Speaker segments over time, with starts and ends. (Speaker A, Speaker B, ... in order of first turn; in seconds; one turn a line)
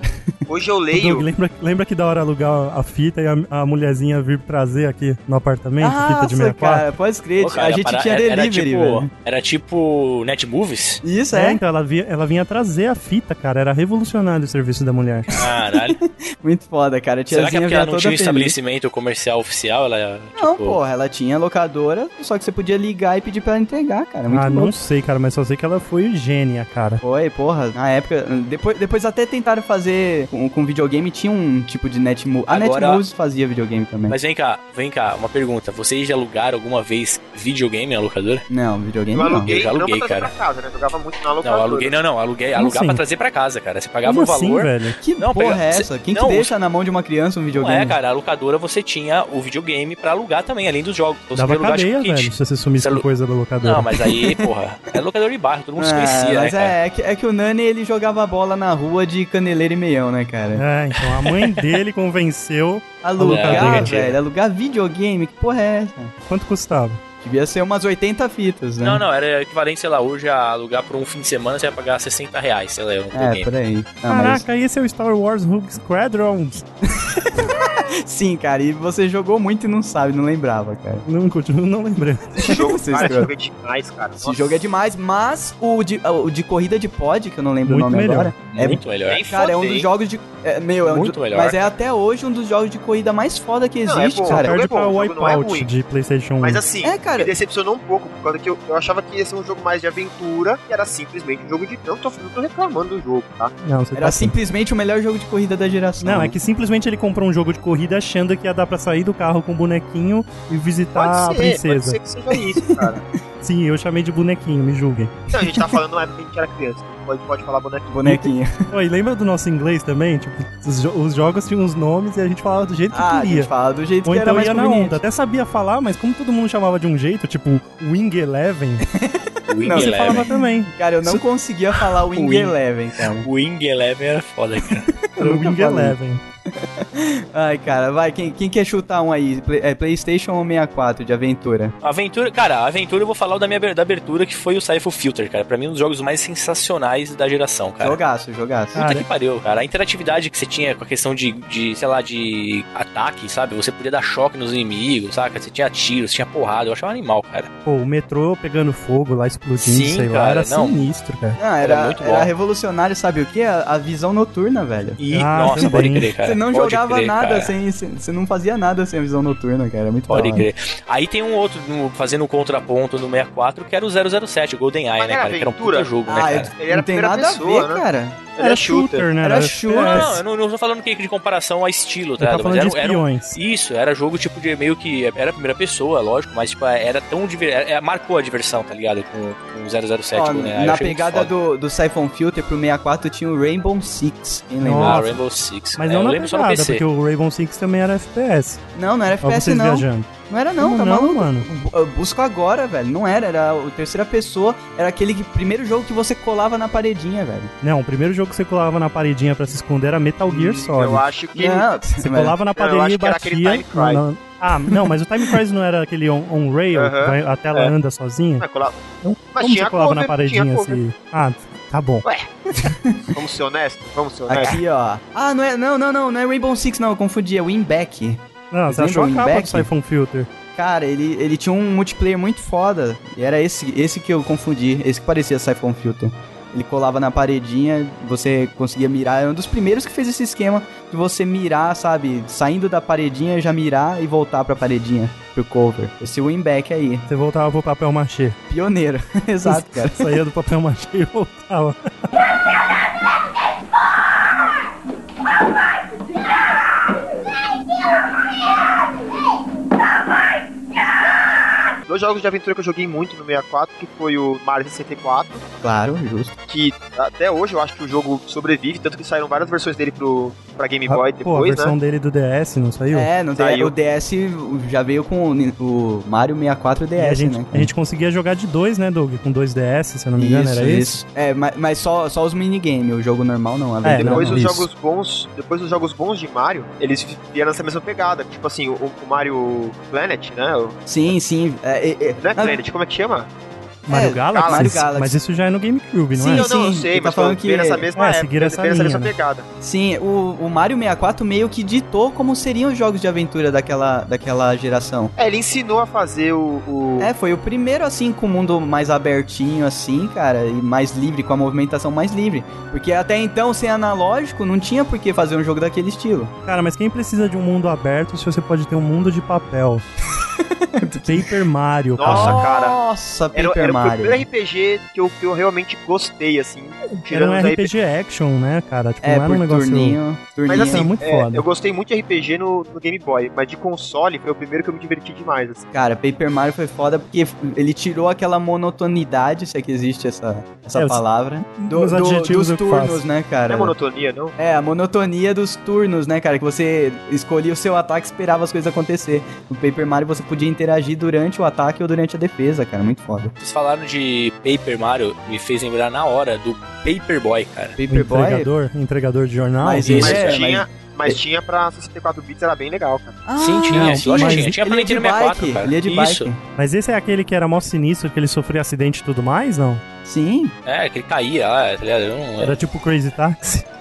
Speaker A: 0.5-1.2
Speaker B: 0.9-6.8
Speaker C: 5.8-9.1
Speaker D: 7.4-11.0
Speaker C: 11.0-11.6
Speaker B: 11.3-15.3
Speaker D: 15.3-16.0
Speaker C: 16.0-18.6
Speaker D: 17.3-20.8
Speaker C: 20.4-24.7
Speaker B: 24.3-27.0
Speaker C: 27.0-34.1
Speaker D: 32.5-33.0
Speaker D: 34.1-38.5
Speaker C: 38.5-39.5
Speaker A: 39.1-42.0
Speaker D: 39.4-40.3
Speaker D: 41.4-46.5
Speaker B: 42.5-43.0
Speaker B: 44.0-45.0
Speaker C: 45.0-48.0
Speaker D: 47.5-53.0
Speaker B: 51.3-53.9
Speaker D: 53.6-56.7
Speaker C: 55.8-60.6
Speaker B: 60.5-63.9
Speaker D: 61.0-61.6
Speaker C: 63.0-66.1
Speaker D: 63.2-64.2
Speaker B: 66.3-67.0
Speaker C: 67.2-69.0
Speaker D: 68.8-73.5
Speaker C: 73.1-74.4
Speaker B: 74.1-76.7
Speaker C: 77.0-81.0
Speaker B: 81.0-83.1
Speaker A: 82.3-84.5
Speaker C: 82.4-83.3
Speaker C: 84.2-94.5
Speaker B: 87.7-88.3
Speaker D: 88.5-89.2
Speaker A: 89.0-89.9
Speaker D: 90.8-91.7
Speaker A: 93.8-95.7
Speaker B: 94.3-96.6
Speaker A: 96.4-103.5
Speaker C: 96.8-97.3
Speaker B: 103.6-104.3
Speaker C: 104.0-106.4
Speaker B: 106.0-112.0
Speaker A: 110.9-113.0
Speaker C: 112.5-113.1
Speaker B: 113.4-115.2
Speaker A: 115.3-117.9
Speaker C: 117.9-118.7
Speaker B: 118.0-123.5
Speaker C: 122.9-125.0
Speaker B: 124.0-128.8
Speaker C: 128.9-133.3
Speaker D: 129.5-130.3
Speaker B: 129.7-131.2
Speaker D: 132.2-132.5
Speaker D: 133.2-134.9
Speaker C: 135.0-136.0
Speaker B: 135.2-136.2
Speaker C: 136.5-141.7
Speaker D: 141.8-148.0
Speaker C: 147.8-148.8
Speaker B: 148.7-149.1
Speaker D: 148.7-157.5
Speaker B: 157.7-161.4
Speaker D: 159.6-160.8
Speaker C: 161.4-165.0
Speaker D: 161.6-162.3
Speaker D: 165.0-167.5
Speaker B: 165.1-166.1
Speaker C: 165.5-170.5
Speaker D: 170.1-176.5
Speaker A: 175.0-175.9
Speaker C: 176.1-178.2
Speaker A: 176.5-177.8
Speaker A: 178.3-179.1
Speaker B: 178.4-180.2
Speaker C: 179.2-180.2
Speaker D: 179.7-191.3
Speaker B: 182.2-183.4
Speaker C: 190.1-195.1
Speaker B: 194.6-195.2
Speaker D: 194.8-196.8
Speaker B: 195.8-198.6
Speaker C: 198.8-207.5
Speaker B: 199.2-201.5
Speaker B: 207.6-211.1
Speaker A: 210.3-211.7
Speaker C: 211.3-212.4
Speaker B: 212.0-218.4
Speaker A: 212.6-214.0
Speaker A: 216.7-217.7
Speaker A: 218.4-220.8
Speaker B: 219.0-222.0
Speaker C: 222.6-223.1
Speaker A: 223.1-224.6
Speaker C: 224.3-229.7
Speaker B: 228.5-230.3
Speaker C: 230.5-247.1
Speaker B: 247.1-248.4
Speaker C: 248.5-250.2
Speaker B: 249.4-252.0
Speaker A: 261.9-265.4
Speaker C: 265.6-266.4
Speaker A: 266.5-271.7
Speaker B: 270.9-273.1
Speaker C: 272.9-277.7
Speaker A: 273.4-273.7
Speaker B: 276.9-281.0
Speaker C: 280.2-284.7
Speaker B: 283.8-284.5
Speaker A: 284.1-290.9
Speaker C: 290.9-292.6
Speaker A: 292.2-293.3
Speaker B: 293.9-296.5
Speaker C: 293.9-295.2
Speaker A: 294.3-294.8
Speaker C: 296.2-297.9
Speaker A: 296.2-299.5
Speaker B: 297.9-299.1
Speaker C: 299.6-305.1
Speaker A: 305.1-307.1
Speaker C: 307.0-316.3
Speaker B: 316.4-319.8
Speaker C: 320.2-321.3
Speaker B: 321.0-322.4
Speaker A: 321.9-322.8
Speaker C: 322.0-324.2
Speaker A: 323.3-327.7
Speaker B: 327.1-330.0
Speaker C: 329.0-330.9
Speaker A: 330.5-335.7
Speaker B: 330.6-331.4
Speaker C: 335.7-343.7
Speaker B: 340.7-341.0
Speaker B: 341.6-343.0
Speaker A: 343.5-344.3
Speaker C: 344.4-353.3
Speaker D: 353.4-357.8
Speaker C: 357.8-358.5
Speaker B: 357.9-360.3
Speaker C: 359.6-361.2
Speaker D: 359.8-360.4
Speaker A: 360.0-363.2
Speaker C: 363.2-366.4
Speaker D: 363.4-366.3
Speaker B: 363.7-364.6
Speaker B: 366.6-369.8
Speaker C: 370.1-370.6
Speaker D: 370.6-372.6
Speaker B: 372.4-373.6